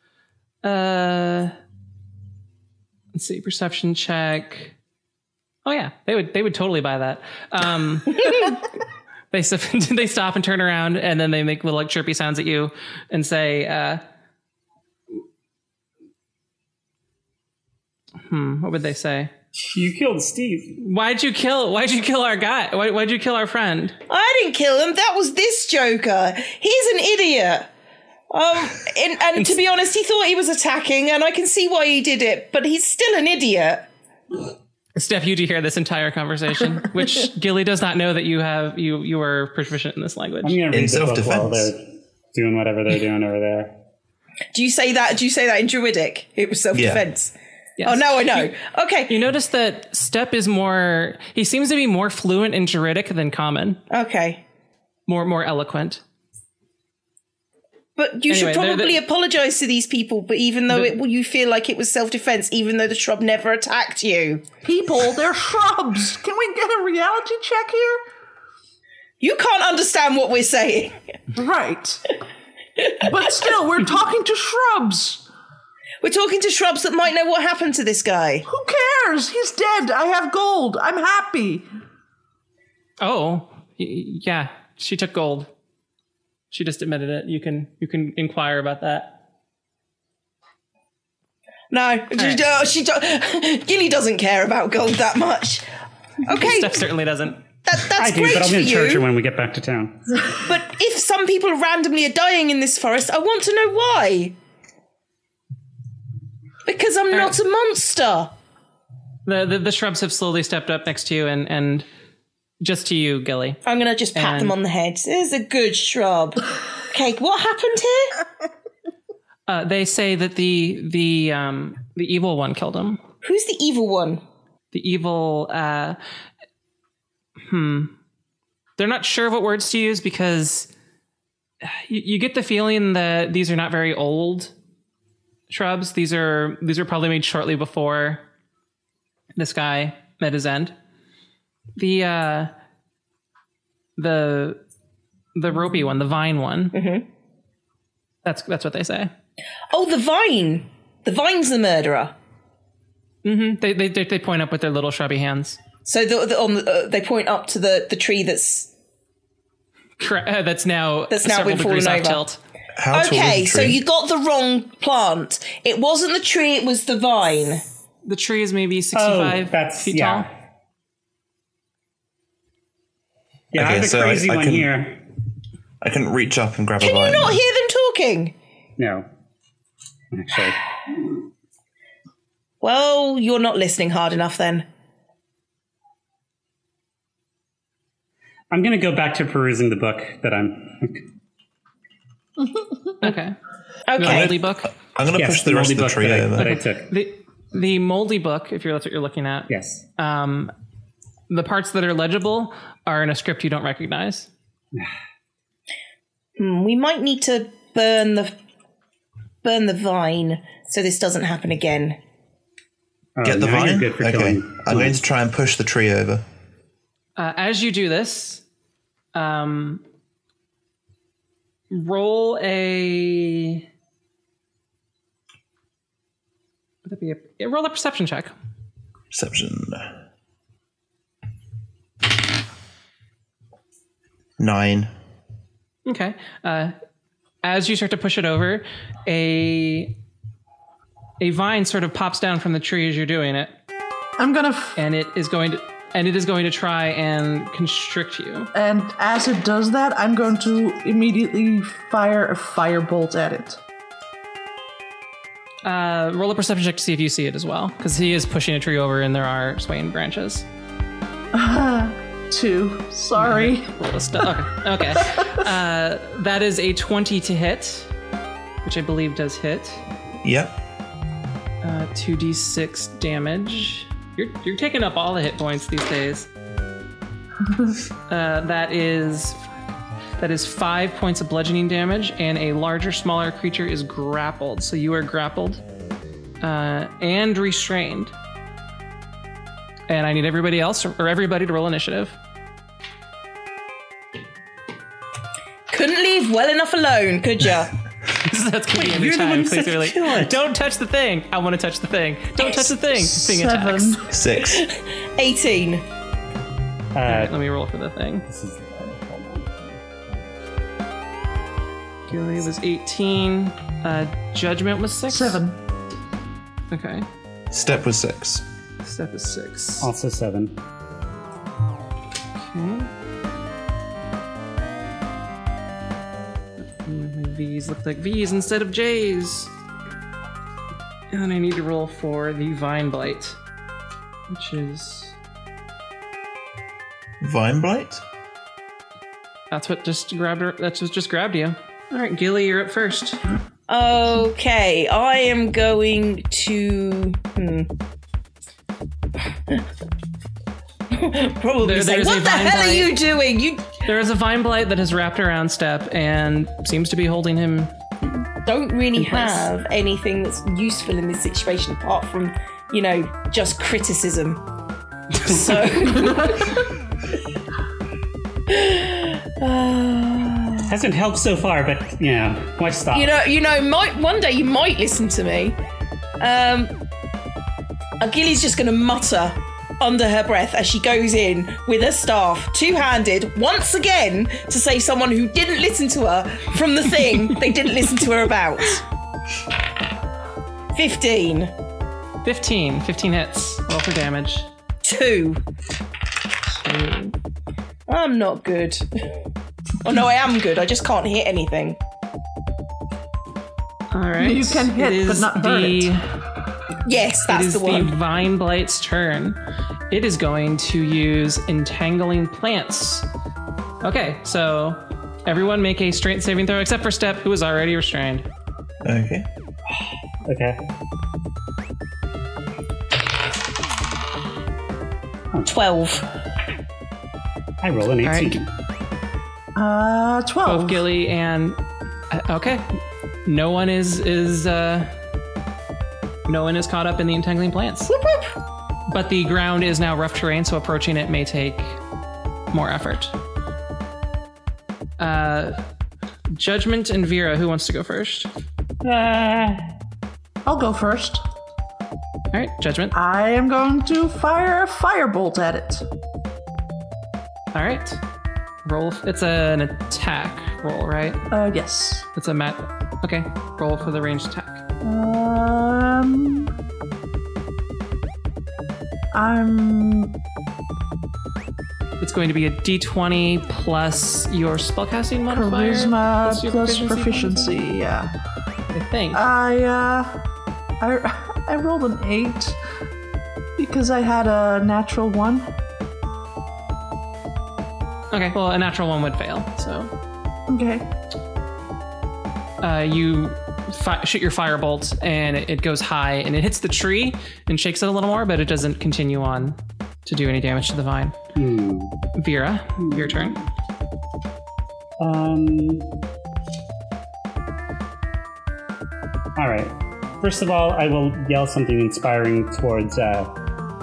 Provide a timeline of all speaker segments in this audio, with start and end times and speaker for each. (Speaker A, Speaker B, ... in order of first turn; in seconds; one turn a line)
Speaker A: 0.6-1.5
Speaker A: 3.1-4.7
Speaker A: 5.6-8.6
Speaker A: 9.3-14.0
Speaker A: 18.3-19.3
Speaker B: 19.6-20.8
Speaker A: 20.8-23.9
Speaker C: 24.1-27.7
Speaker C: 28.3-33.9
Speaker A: 35.0-40.6
Speaker B: 40.4-43.7
Speaker D: 40.7-41.7
Speaker C: 44.5-49.1
Speaker D: 46.7-47.0
Speaker A: 47.8-48.5
Speaker A: 49.1-53.8
Speaker C: 53.9-54.4
Speaker A: 55.1-56.0
Speaker C: 58.0-64.4
Speaker A: 58.3-59.0
Speaker A: 60.7-61.0
Speaker E: 64.6-68.0
Speaker C: 69.2-71.0
Speaker E: 71.3-72.0
Speaker E: 73.0-75.2
Speaker C: 76.0-78.5
Speaker E: 78.5-81.7
Speaker A: 83.0-85.5
Speaker A: 86.5-89.2
Speaker C: 91.7-95.7
Speaker A: 92.2-92.4
Speaker C: 96.2-96.8
Speaker A: 96.3-97.4
Speaker C: 97.6-99.0
Speaker B: 97.9-100.2
Speaker C: 100.4-104.3
Speaker C: 106.7-108.3
Speaker A: 109.2-111.9
Speaker A: 112.6-113.6
Speaker C: 113.6-118.2
Speaker A: 114.1-114.5
Speaker A: 119.5-123.0
Speaker C: 123.2-124.2
Speaker A: 124.7-126.0
Speaker A: 127.4-127.9
Speaker A: 128.8-130.7
Speaker A: 131.6-134.5
Speaker A: 135.5-138.2
Speaker A: 139.3-140.7
Speaker A: 141.8-142.5
Speaker A: 144.0-144.6
Speaker A: 145.3-146.8
Speaker C: 146.7-147.0
Speaker A: 148.2-149.1
Speaker C: 149.7-152.1
Speaker A: 153.2-155.6
Speaker C: 155.8-158.7
Speaker A: 160.0-162.4
Speaker C: 161.1-162.2
Speaker D: 162.8-163.8
Speaker C: 162.9-167.6
Speaker A: 168.0-170.3
Speaker B: 168.9-170.3
Speaker B: 173.5-175.0
Speaker D: 173.5-174.7
Speaker D: 175.8-177.4
Speaker C: 176.8-178.3
Speaker B: 178.8-179.1
Speaker B: 180.1-181.2
Speaker C: 182.6-184.7
Speaker B: 188.5-191.0
Speaker A: 193.0-193.3
Speaker C: 193.9-194.3
Speaker A: 194.0-194.7
Speaker D: 194.8-196.5
Speaker B: 195.1-196.9
Speaker A: 196.4-200.5
Speaker B: 199.5-199.8
Speaker A: 201.3-204.3
Speaker C: 206.4-208.3
Speaker C: 209.4-212.0
Speaker B: 213.2-215.0
Speaker D: 213.2-216.2
Speaker A: 217.2-218.4
Speaker A: 219.1-219.8
Speaker A: 221.7-223.6
Speaker A: 226.8-228.3
Speaker D: 229.1-229.9
Speaker D: 234.4-234.9
Speaker A: 235.8-236.7
Speaker A: 237.4-239.9
Speaker A: 241.2-243.5
Speaker E: 244.2-244.8
Speaker A: 244.8-248.5
Speaker E: 248.5-253.6
Speaker A: 255.6-260.4
Speaker E: 261.3-263.7
Speaker A: 263.2-267.9
Speaker A: 268.6-269.8
Speaker D: 270.2-270.5
Speaker A: 271.6-276.3
Speaker A: 278.1-279.4
Speaker A: 280.2-285.6
Speaker A: 286.4-288.1
Speaker A: 289.9-292.2
Speaker C: 295.7-297.7
Speaker A: 298.1-304.0
Speaker B: 298.7-300.4
Speaker E: 303.2-304.1
Speaker D: 304.1-304.6
Speaker C: 304.3-305.8
Speaker B: 306.9-307.3
Speaker A: 307.1-308.2
Speaker B: 308.3-310.3
Speaker A: 312.1-315.4
Speaker E: 315.1-315.6
Speaker A: 316.7-317.1
Speaker D: 317.5-318.4
Speaker A: 318.8-319.9
Speaker B: 319.8-320.6
Speaker A: 322.4-322.9
Speaker A: 326.6-329.5
Speaker A: 331.1-333.4
Speaker A: 334.3-335.1
Speaker D: 337.2-338.0
Speaker A: 339.5-343.2
Speaker C: 343.7-347.7
Speaker C: 350.9-353.8
Speaker A: 351.6-352.9
Speaker A: 353.8-357.7
Speaker C: 358.4-364.4
Speaker A: 358.9-359.5
Speaker A: 365.2-365.7
Speaker C: 365.2-366.6
Speaker C: 368.5-370.7
Speaker B: 370.6-373.1
Speaker C: 372.9-375.6
Speaker C: 376.2-376.7
Speaker C: 378.0-388.8
Speaker C: 390.7-391.5
Speaker A: 392.2-394.5
Speaker C: 394.8-395.4
Speaker A: 396.5-397.1
Speaker C: 397.9-398.9
Speaker C: 399.8-401.8
Speaker A: 403.9-406.0
Speaker E: 404.2-405.9
Speaker C: 406.8-407.9
Speaker A: 407.3-409.4
Speaker A: 409.9-413.1
Speaker A: 413.8-418.2
Speaker D: 418.8-419.2
Speaker B: 420.2-420.6
Speaker C: 425.5-426.1
Speaker B: 427.6-428.5
Speaker A: 428.0-428.4
Speaker E: 429.5-430.8
Speaker A: 430.4-432.7
Speaker A: 433.2-434.9
Speaker A: 436.3-437.9
Speaker C: 437.9-438.3
Speaker A: 438.9-441.8
Speaker A: 442.5-443.1
Speaker A: 445.0-445.6
Speaker A: 446.3-448.3
Speaker B: 448.8-449.6
Speaker E: 450.4-451.2
Speaker A: 452.3-452.9
Speaker E: 452.9-455.8
Speaker A: 457.5-458.0
Speaker A: 458.6-461.2
Speaker E: 461.3-462.1
Speaker A: 462.1-464.6
Speaker E: 464.8-466.5
Speaker E: 469.1-470.1
Speaker A: 472.0-477.6
Speaker E: 475.3-478.1
Speaker A: 478.7-479.2
Speaker E: 479.1-480.2
Speaker E: 480.8-482.6
Speaker E: 483.6-485.5
Speaker A: 488.1-489.9
Speaker E: 490.5-490.9
Speaker A: 492.6-501.1
Speaker B: 501.3-502.0
Speaker A: 502.1-503.4
Speaker B: 502.9-503.3
Speaker B: 505.0-506.0
Speaker B: 509.4-513.4